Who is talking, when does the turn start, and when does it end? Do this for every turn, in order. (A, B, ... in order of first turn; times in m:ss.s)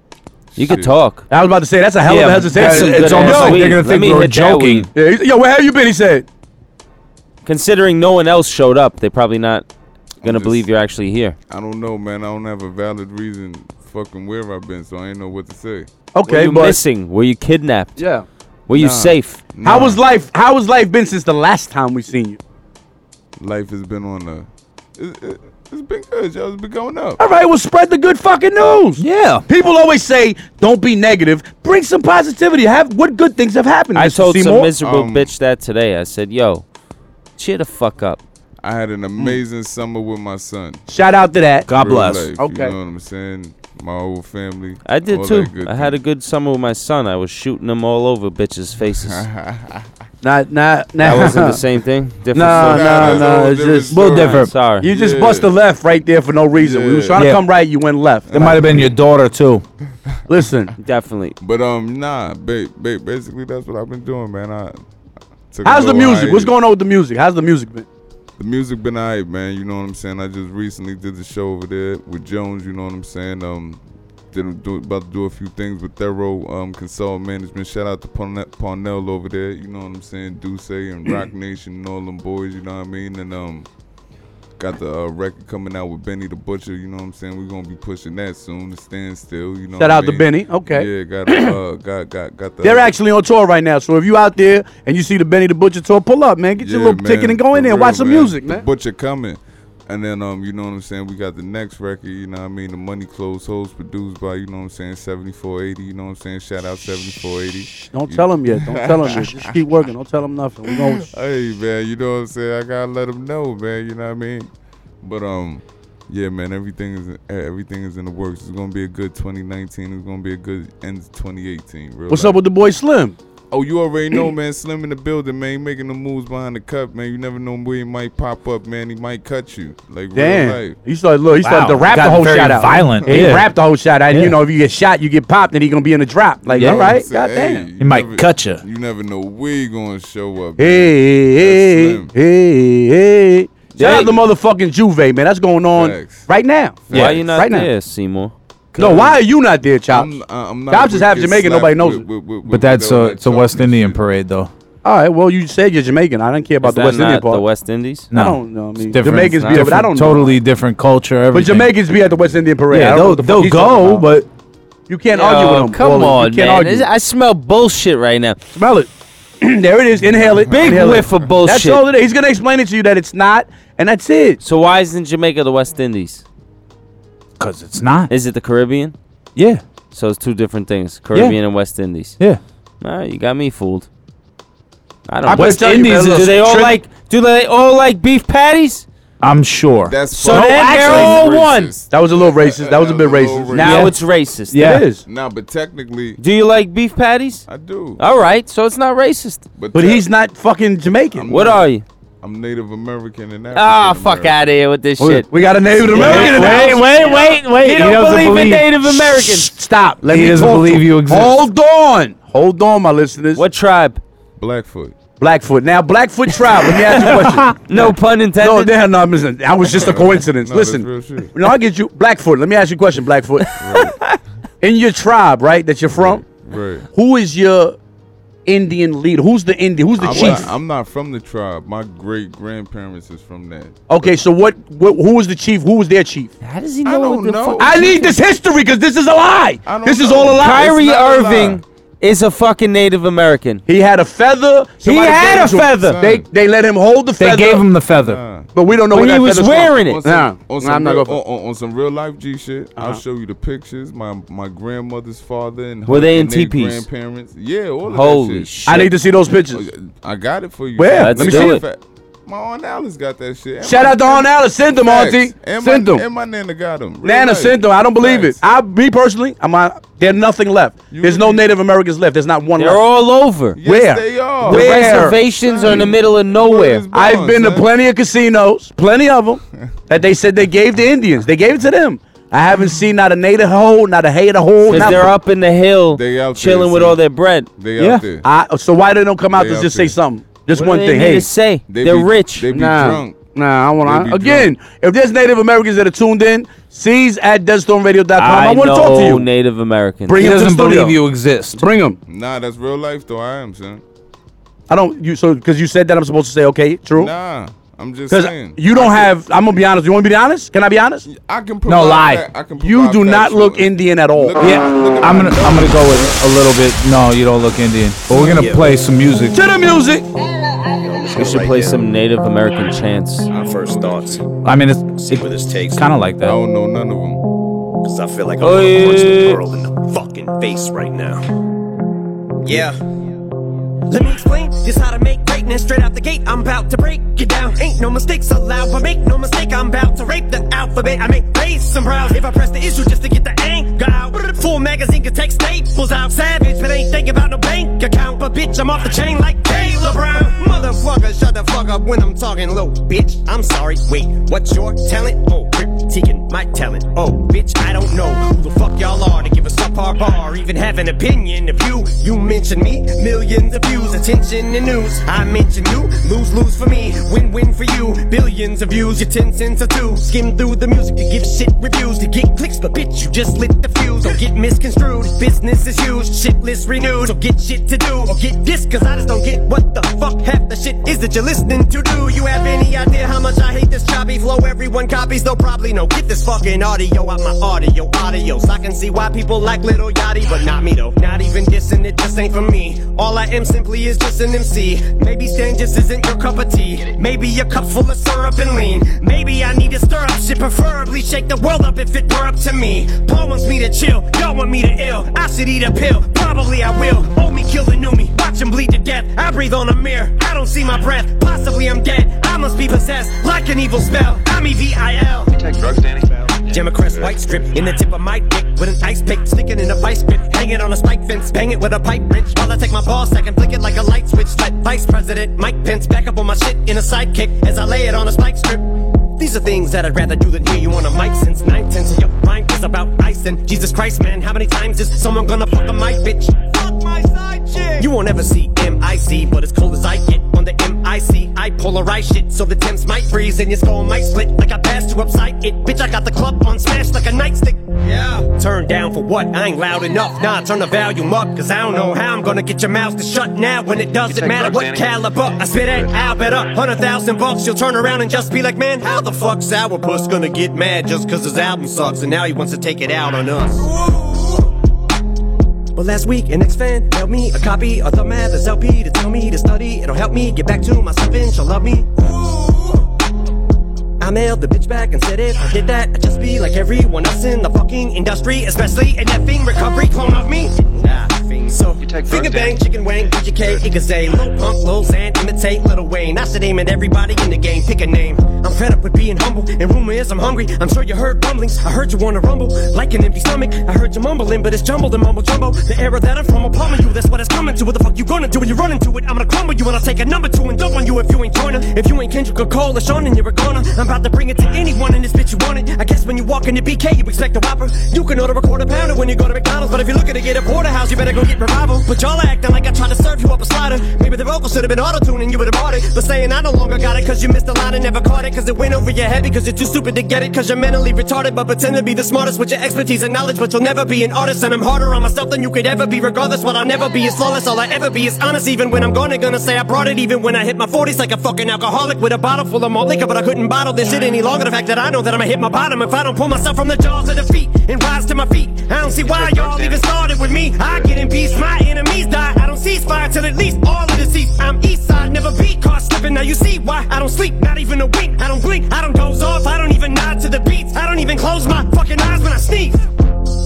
0:00.5-0:00.9 A
0:00.6-0:01.2 B
0:01.3-0:03.8 C
0:02.0-0:04.9 D
0:02.5-0:04.9 B
0:04.9-0:06.2 C
0:07.4-0:09.6 B
0:10.2-0:10.7 A
0:10.2-0:11.4 B
0:11.5-0:15.9 A
0:16.1-0:16.8 C
0:16.3-0:18.0 B
0:18.0-0:18.2 C
0:18.7-0:19.4 B
0:18.8-0:20.0 A
0:19.6-0:22.4 C
0:23.4-0:27.2 A
0:27.2-0:34.7 C
0:29.0-0:29.4 D
0:33.9-0:36.6 B
0:34.8-0:35.3 A
0:37.4-0:38.2 B
0:38.6-0:40.8 A
0:40.9-0:41.7 C
0:41.7-0:42.3 D
0:41.7-0:46.0 A
0:42.4-0:42.7 C
0:44.8-0:49.2 B
0:49.0-0:49.8 A
0:50.2-0:51.6 C
0:51.0-0:53.4 B
0:52.3-0:58.6 C
0:52.4-0:55.5 A
0:54.0-0:54.9 B
0:54.2-0:54.5 D
0:56.6-0:57.2 A
0:57.2-0:57.4 D
0:58.3-0:58.9 A
0:58.3-0:59.6 D
1:00.3-1:00.7 C
1:00.8-1:01.4 B
1:01.4-1:04.8 A
1:05.5-1:06.5 A
1:05.6-1:07.8 C
1:08.4-1:23.7 A
1:24.6-1:32.9 A
1:29.8-1:31.5 C
1:32.6-1:38.6 C
1:36.6-1:49.5 A
1:47.9-1:51.1 C
1:50.8-1:54.5 A
1:55.0-2:02.4 A
2:02.1-2:03.2 C
2:03.5-2:10.8 A
2:10.1-2:17.7 C
2:11.4-2:13.5 D
2:14.1-2:14.4 D
2:16.5-2:22.1 A
2:16.6-2:16.9 D
2:17.8-2:18.6 D
2:20.6-2:27.7 C
2:23.7-2:24.2 A
2:23.8-2:24.1 B
2:25.7-2:26.3 A
2:26.8-2:27.2 A
2:26.9-2:28.3 B
2:28.7-2:29.2 A
2:28.8-2:30.1 C
2:29.9-2:34.0 A
2:30.7-2:32.0 C
2:32.5-2:34.5 D
2:34.8-2:37.4 C
2:36.6-2:38.1 B
2:38.1-2:40.3 C
2:38.1-2:41.7 D
2:39.1-2:39.8 B
2:41.3-2:44.1 C
2:42.0-2:42.4 A
2:42.7-2:44.2 D
2:44.9-2:46.9 C
2:45.1-2:48.4 B
2:48.5-2:48.9 C
2:49.4-2:54.4 C
2:50.4-2:51.3 A
2:50.5-2:51.8 B
2:54.4-2:56.2 B
2:57.4-2:58.1 D
2:58.1-2:58.9 B
2:59.4-2:59.6 D
2:59.9-3:02.2 B
3:02.8-3:03.9 B
3:05.1-3:08.8 B
3:05.3-3:06.8 C
3:05.3-3:06.4 D
3:09.2-3:11.2 D
3:09.8-3:13.8 A
3:10.1-3:11.7 B
3:10.5-3:11.2 C
3:11.9-3:13.8 C
3:13.5-3:14.7 B
3:13.6-3:13.9 D
3:14.5-3:14.8 D
3:14.6-3:15.0 C
3:15.0-3:16.2 A
3:16.2-3:17.4 B
3:17.5-3:18.0 A
3:18.0-3:19.4 B
3:19.6-3:20.1 A
3:19.7-3:21.4 C
3:21.1-3:21.7 A
3:21.3-3:21.8 B
3:22.2-3:24.4 A
3:23.5-3:25.3 B
3:25.0-3:28.5 C
3:25.8-3:29.5 B
3:25.9-3:29.5 D
3:29.2-3:33.4 C
3:30.0-3:31.5 D
3:33.3-3:34.0 B
3:34.4-3:35.0 A
3:35.2-3:46.2 C
3:37.0-3:37.5 D
3:37.7-3:38.7 B
3:39.7-3:41.3 A
3:43.6-3:44.0 A
3:46.0-3:46.9 A
3:46.9-3:47.8 C
3:48.4-3:50.5 C
3:50.0-3:54.1 A
3:50.1-3:50.4 B
3:53.9-3:56.3 C
3:56.4-3:58.1 B
3:56.8-3:58.0 A
3:57.6-4:00.7 C
3:59.6-4:01.6 A
4:00.4-4:03.6 B
4:03.6-4:07.7 C
4:04.8-4:06.0 B
4:05.1-4:06.3 A
4:07.2-4:08.2 D
4:07.9-4:08.5 A
4:08.5-4:11.2 C
4:08.9-4:10.0 B
4:09.7-4:18.5 A
4:15.9-4:16.8 B
4:17.9-4:18.9 B
4:18.6-4:19.7 C
4:19.5-4:28.4 A
4:20.8-4:21.6 C
4:21.0-4:21.6 B
4:23.6-4:26.0 C
4:27.0-4:32.8 C
4:30.9-4:31.5 A
4:32.6-4:33.6 B
4:33.6-4:37.7 A
4:33.6-4:35.2 C
4:34.4-4:36.8 B
4:36.9-4:45.1 C
4:44.7-4:47.5 B
4:44.8-4:45.0 A
4:45.9-4:47.0 A
4:47.6-4:48.2 A
4:47.8-4:48.0 D
4:48.2-4:51.3 C
4:49.3-4:50.0 A
4:50.5-4:52.5 B
4:51.7-4:54.6 A
4:52.5-4:59.2 C
4:58.2-5:00.2 B
5:00.1-5:01.0 C
5:00.2-5:01.6 D
5:01.6-5:02.0 C
5:02.1-5:03.8 A
5:04.7-5:07.1 C
5:06.9-5:09.1 A
5:08.1-5:11.0 C
5:11.0-5:16.1 A
5:11.7-5:12.2 D
5:12.6-5:14.4 C
5:14.4-5:19.4 D
5:18.1-5:18.4 A
5:18.3-5:18.6 E
5:19.3-5:20.0 C
5:20.8-5:21.8 E
5:21.1-5:23.3 B
5:23.3-5:24.2 A
5:23.3-5:24.2 E
5:24.4-5:26.4 D
5:24.9-5:25.8 E
5:26.2-5:27.2 A
5:27.8-5:31.2 E
5:28.4-5:29.4 B
5:32.4-5:32.8 E
5:33.9-6:55.6 E
6:56.5-7:16.6 E
7:17.8-7:44.3 E
7:45.7-7:52.8 E
7:54.0-9:12.8 E